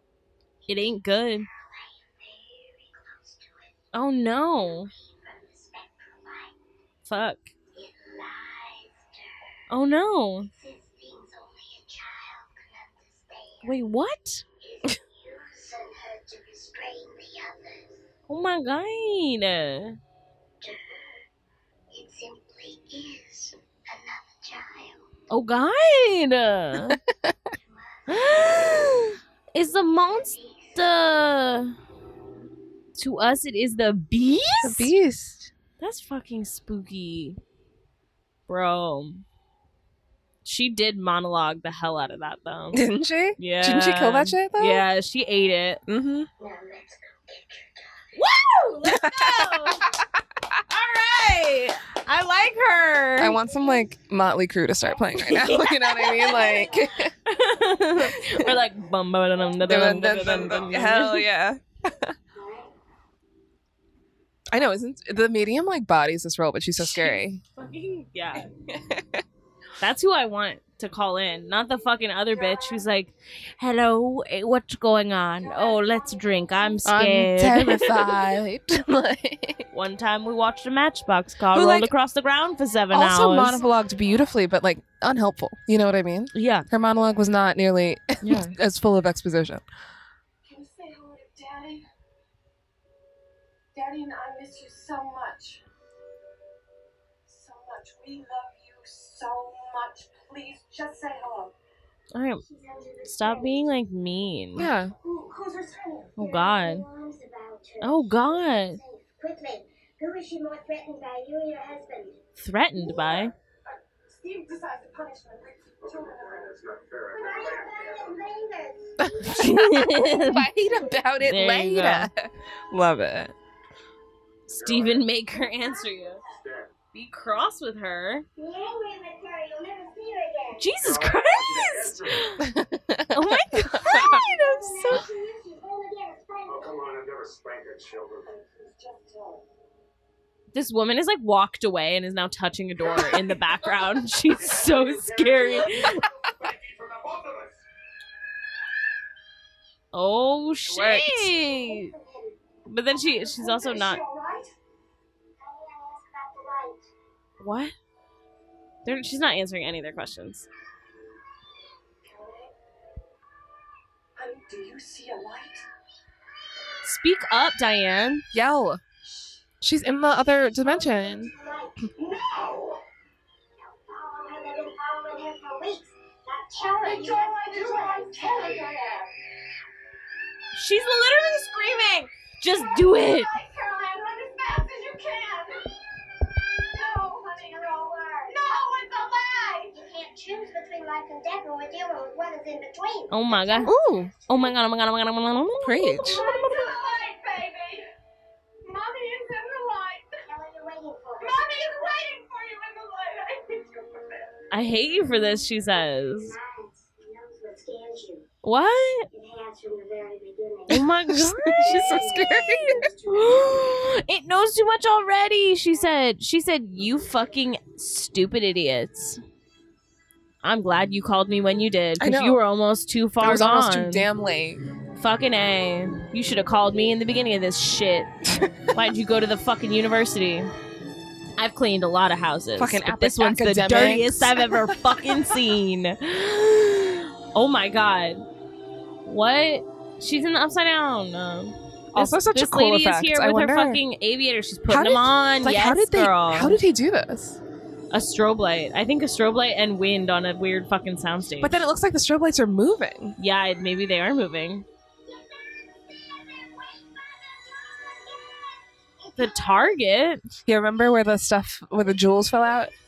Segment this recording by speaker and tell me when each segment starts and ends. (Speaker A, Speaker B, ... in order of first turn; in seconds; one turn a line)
Speaker A: 0.7-1.5
Speaker B: 0.7-3.8
Speaker A: 3.9-4.9
Speaker B: 4.5-6.5
Speaker A: 7.0-7.5
Speaker B: 7.7-9.5
Speaker A: 9.7-10.5
Speaker B: 10.5-13.8
Speaker A: 13.6-14.4
Speaker B: 14.6-18.1
Speaker A: 18.3-20.0
Speaker B: 20.6-21.2
Speaker B: 21.9-25.1
Speaker A: 25.3-27.0
Speaker B: 27.5-28.8
Speaker A: 28.1-31.7
Speaker B: 29.9-31.1
Speaker A: 33.0-34.9
Speaker C: 34.6-35.5
Speaker A: 35.8-37.4
Speaker A: 38.5-39.2
Speaker A: 40.4-42.8
Speaker C: 42.7-44.8
Speaker A: 43.4-45.8
Speaker C: 45.9-46.3
Speaker B: 46.4-48.2
Speaker A: 48.1-49.8
Speaker C: 48.9-49.7
Speaker A: 50.7-53.4
Speaker C: 53.2-57.1
Speaker B: 53.5-53.8
Speaker B: 54.8-57.1
Speaker A: 55.2-56.5
Speaker A: 57.2-61.3
Speaker C: 58.1-58.5
Speaker C: 59.6-62.1
Speaker B: 62.3-62.7
Speaker C: 64.5-67.4
Speaker A: 66.8-68.5
Speaker C: 68.7-69.2
Speaker A: 69.8-78.2
Speaker B: 72.3-72.8
Speaker B: 75.4-76.7
Speaker C: 76.8-79.6
Speaker A: 79.7-83.6
Speaker C: 81.5-81.9
Speaker C: 82.9-89.6
Speaker A: 86.3-86.7
Speaker A: 88.2-88.5
Speaker D: 90.4-91.8
Speaker D: 93.7-95.6
Speaker D: 97.3-101.5
Speaker A: 102.1-102.4
Speaker B: 102.4-103.8
Speaker A: 103.0-104.7
Speaker C: 104.5-104.9
Speaker B: 104.6-112.2
Speaker D: 105.0-105.8
Speaker A: 106.2-106.8
Speaker A: 107.8-108.8
Speaker A: 112.4-113.3
Speaker B: 112.8-113.3
Speaker D: 113.7-116.6
Speaker E: 115.8-118.2
Speaker B: 117.1-119.5
Speaker C: 119.0-123.3
Speaker A: 119.2-120.5
Speaker A: 121.2-122.1
Speaker A: 124.5-126.2
Speaker E: 124.5-125.1
Speaker B: 125.3-126.3
Speaker E: 126.3-126.7
Speaker A: 126.9-128.3
Speaker B: 128.4-130.7
Speaker A: 130.6-132.4
Speaker E: 130.8-132.3
Speaker C: 132.4-134.2
Speaker A: 133.1-135.1
Speaker B: 133.8-136.8
Speaker E: 136.4-138.4
Speaker D: 138.3-139.4
Speaker A: 140.5-146.1
Speaker E: 144.4-147.6
Speaker A: 149.9-151.9
Speaker C: 150.7-151.3
Speaker B: 151.3-152.4
Speaker A: 152.7-154.0
Speaker D: 153.4-154.5
Speaker B: 155.4-156.9
Speaker A: 157.4-157.7
Speaker A: 158.8-160.5
Speaker B: 162.0-162.5
Speaker D: 164.2-165.7
Speaker A: 166.8-168.2
Speaker C: 168.3-168.8
Speaker C: 169.6-171.3
Speaker B: 170.6-172.5
Speaker D: 172.0-172.8
Speaker B: 173.6-178.8
Speaker D: 176.8-179.1
Speaker A: 180.5-183.3
Speaker D: 182.8-185.6
Speaker B: 186.7-188.4
Speaker D: 186.7-189.7
Speaker B: 189.7-193.7
Speaker A: 193.1-193.7
Speaker C: 193.6-194.1
Speaker A: 194.3-196.1
Speaker C: 195.6-196.2
Speaker D: 196.0-197.9
Speaker B: 196.0-197.0
Speaker D: 198.7-200.2
Speaker B: 200.2-202.0
Speaker D: 201.2-204.1
Speaker B: 203.6-204.0
Speaker A: 204.5-206.4
Speaker B: 206.2-208.3
Speaker A: 208.4-209.1
Speaker B: 209.1-210.9
Speaker A: 210.7-219.2
Speaker C: 211.1-212.8
Speaker B: 211.6-213.1
Speaker A: 220.4-224.1
Speaker C: 222.0-222.4
Speaker C: 223.2-224.6
Speaker A: 224.9-228.1
Speaker C: 228.3-228.5
Speaker A: 228.7-230.5
Speaker A: 231.4-238.2
Speaker C: 232.6-235.3
Speaker A: 239.0-246.6
Speaker C: 241.9-243.8
Speaker C: 244.7-247.4
Speaker A: 247.9-251.6
Speaker C: 251.4-253.2
Speaker A: 253.2-254.7
Speaker B: 255.0-259.8
Speaker A: 259.2-260.2
Speaker C: 260.4-262.7